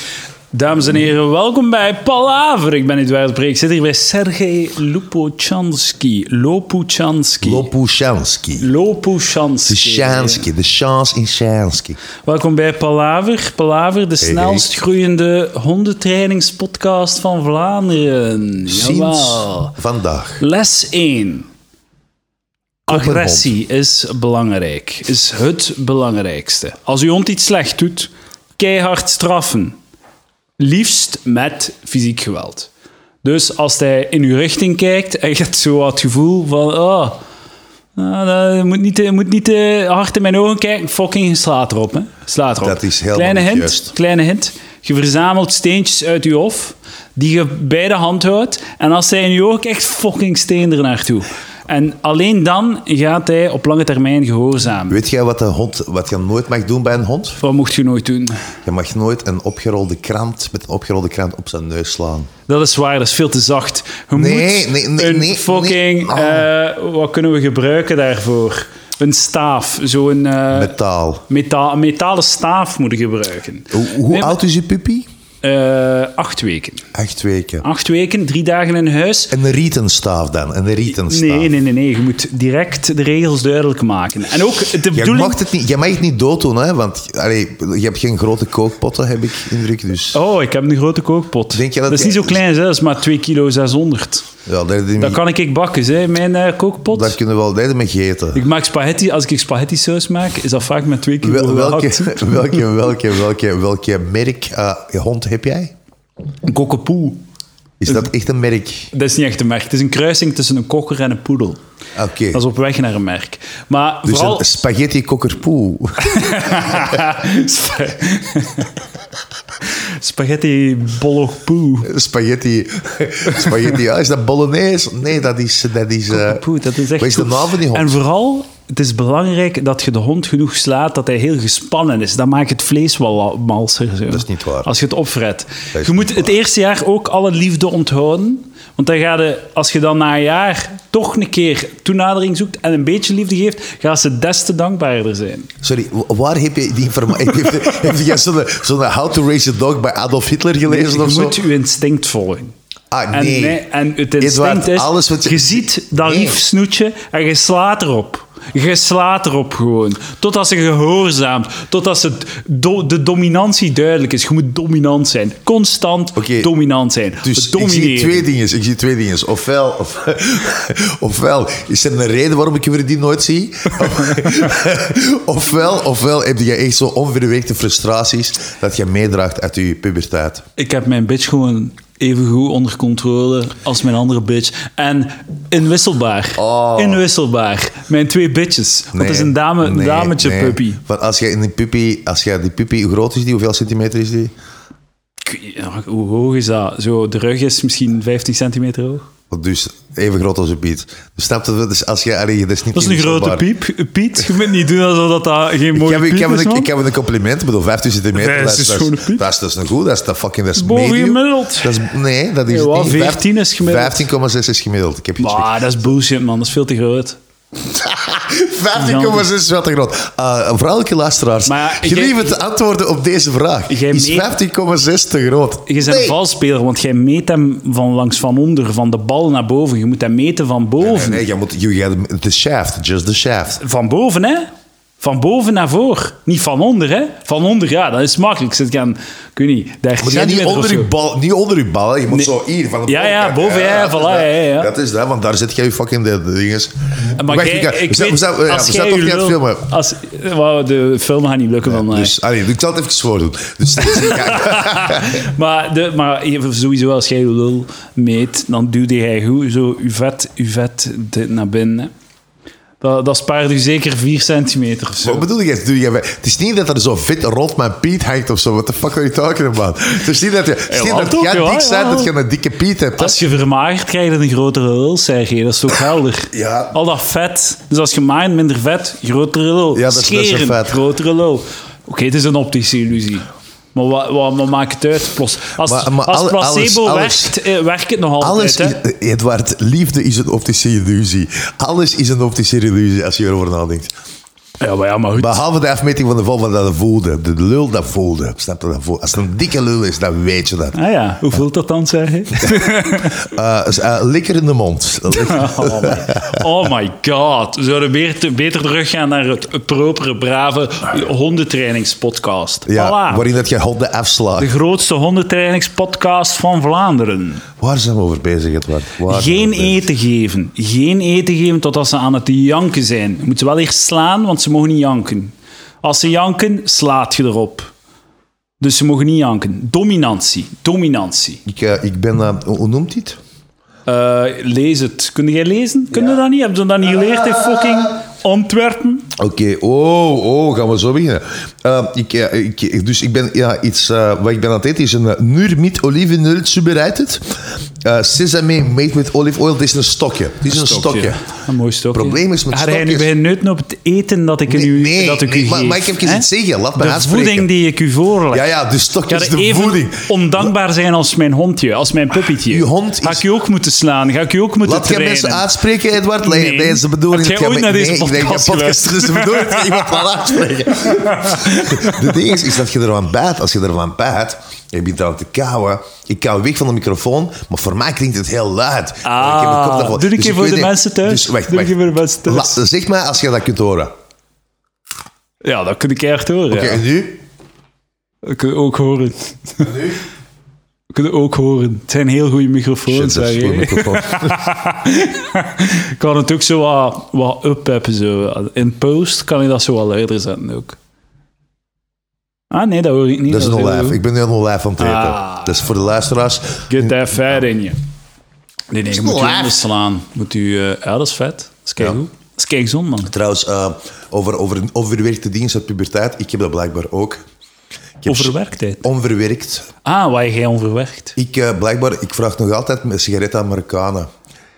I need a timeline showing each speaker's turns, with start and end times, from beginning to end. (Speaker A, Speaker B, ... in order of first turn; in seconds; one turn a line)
Speaker A: 0.5-7.7
Speaker B: 7.4-8.7
Speaker A: 8.6-10.5
Speaker B: 9.7-12.0
Speaker A: 12.2-19.7
Speaker B: 14.2-14.7
Speaker B: 18.7-20.4
Speaker A: 20.4-21.5
Speaker A: 22.9-29.8
Speaker B: 22.9-23.5
Speaker A: 30.6-32.7
Speaker A: 33.2-37.2
Speaker A: 38.0-55.0
Speaker B: 42.6-43.9
Speaker B: 54.9-57.4
Speaker A: 57.4-58.5
Speaker B: 58.6-62.3
Speaker A: 62.5-70.7
Speaker B: 64.1-66.5
Speaker B: 70.5-71.2
Speaker A: 71.3-74.4
Speaker B: 73.7-75.1
Speaker A: 75.4-76.8
Speaker B: 76.9-77.7
Speaker A: 77.6-79.3
Speaker B: 79.3-81.5
Speaker A: 80.9-85.4
Speaker B: 84.9-90.2
Speaker A: 90.1-94.2
Speaker B: 91.5-92.4
Speaker B: 94.5-95.2
Speaker A: 95.0-97.2
Speaker B: 96.9-98.4
Speaker A: 98.3-102.5
Speaker B: 101.2-105.7
Speaker A: 106.5-107.2
Speaker B: 107.8-108.9
Speaker A: 108.9-111.6
Speaker B: 112.0-112.4
Speaker A: 112.3-114.5
Speaker B: 114.1-117.0
Speaker A: 116.1-118.7
Speaker A: 120.0-121.9
Speaker B: 121.8-126.4
Speaker A: 126.1-145.5
Speaker B: 127.0-128.0
Speaker B: 134.1-134.7
Speaker B: 135.7-136.3
Speaker B: 145.6-151.4
Speaker A: 150.7-152.5
Speaker B: 152.9-153.6
Speaker A: 153.1-168.3
Speaker B: 154.2-156.4
Speaker B: 166.2-166.5
Speaker B: 167.2-180.4
Speaker A: 180.6-190.8
Speaker B: 186.4-187.0
Speaker B: 188.9-194.3
Speaker A: 195.2-199.1
Speaker B: 199.3-203.5
Speaker A: 202.7-206.7
Speaker B: 205.7-215.6
Speaker A: 208.2-209.2
Speaker A: 210.6-211.8
Speaker A: 212.5-214.0
Speaker A: 215.2-217.2
Speaker B: 217.8-226.2
Speaker A: 218.7-219.3
Speaker A: 221.4-222.4
Speaker A: 223.7-224.3
Speaker A: 225.7-231.2
Speaker B: 230.8-233.6
Speaker A: 233.6-234.5
Speaker A: 235.0-240.9
Speaker B: 240.0-249.7
Speaker A: 242.9-244.7
Speaker A: 247.2-252.2
Speaker B: 251.7-255.2
Speaker A: 253.8-261.9
Speaker A: 262.8-265.3
Speaker B: 265.0-273.2
Speaker A: 270.7-272.1
Speaker A: 273.0-288.8
Speaker B: 276.3-276.8
Speaker B: 279.7-280.8
Speaker B: 285.6-287.4
Speaker B: 288.2-293.9
Speaker A: 294.6-295.4
Speaker B: 295.1-300.8
Speaker A: 300.7-303.2
Speaker B: 303.2-306.4
Speaker A: 305.1-313.3
Speaker B: 312.7-314.5
Speaker A: 314.4-317.4
Speaker B: 317.6-319.8
Speaker A: 319.1-327.7
Speaker A: 328.6-331.4
Speaker B: 331.5-333.2
Speaker A: 333.9-339.1
Speaker B: 339.2-351.2
Speaker A: 350.5-356.2
Speaker B: 351.9-353.1
Speaker B: 354.5-357.5
Speaker A: 356.8-358.5
Speaker B: 358.3-360.5
Speaker A: 359.1-365.5
Speaker B: 362.5-363.2
Speaker B: 364.6-383.9
Speaker A: 366.2-370.1
Speaker A: 370.8-372.4
Speaker A: 379.0-382.6
Speaker A: 385.4-386.8
Speaker B: 386.5-387.2
Speaker A: 388.2-389.7
Speaker B: 389.6-390.0
Speaker A: 390.9-400.8
Speaker B: 392.9-394.4
Speaker A: 402.5-404.0
Speaker B: 403.3-407.2
Speaker A: 404.8-405.6
Speaker A: 406.7-407.8
Speaker A: 408.7-413.1
Speaker B: 408.9-409.6
Speaker B: 413.1-417.2
Speaker B: 418.0-419.7
Speaker A: 418.1-418.9
Speaker A: 419.8-421.1
Speaker B: 421.2-424.1